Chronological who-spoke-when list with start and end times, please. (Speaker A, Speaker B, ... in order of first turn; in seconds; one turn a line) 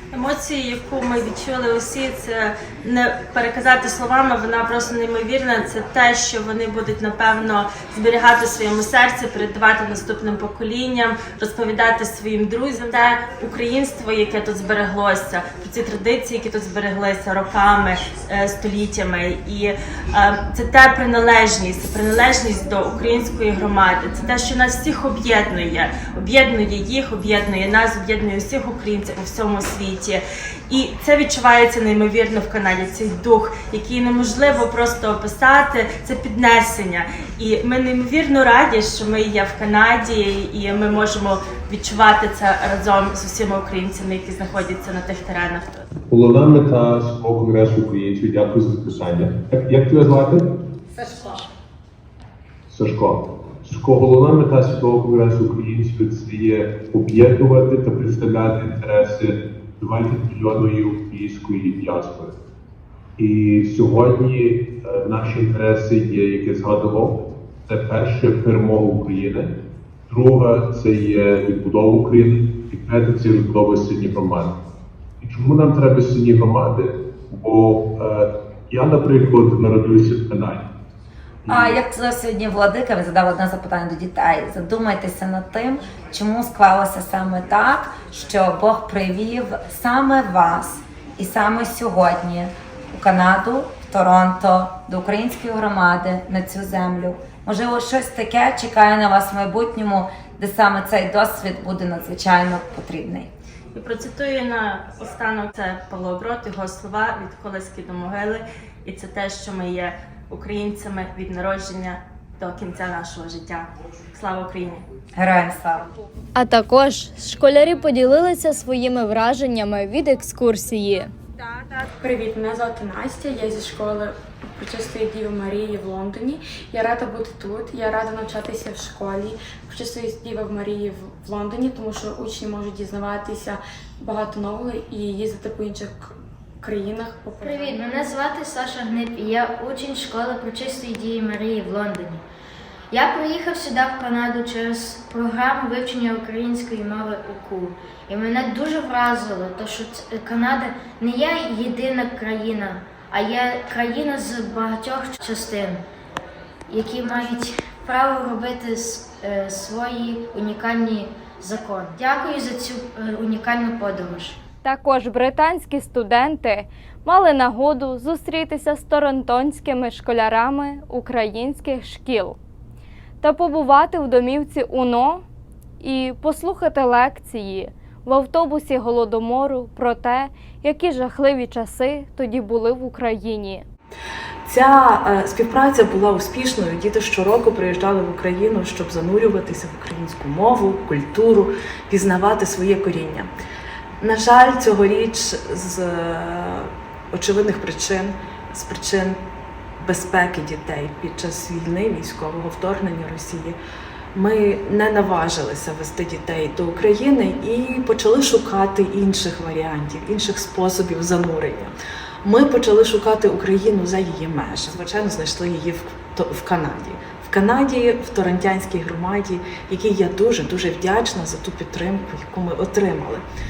Speaker A: 0.1-45.8
Speaker B: 46.1-50.5
Speaker B: 52.7-62.4
Speaker B: 63.2-69.5
Speaker B: 70.1-74.5
Speaker B: 75.2-80.7
Speaker B: 81.5-81.8
Speaker C: 81.5-103.3
Speaker A: 103.7-114.8
Speaker C: 115.2-115.9
Speaker D: 116.3-121.1
Speaker E: 122.0-137.8
Speaker F: 137.4-142.2
Speaker F: 142.9-155.8
Speaker F: 156.7-164.4
Speaker D: 164.6-172.4
Speaker D: 173.2-175.2
Speaker D: 175.8-183.6
Speaker G: 184.4-193.3
Speaker G: 194.0-199.2
Speaker G: 199.8-203.6
Speaker G: 204.1-223.2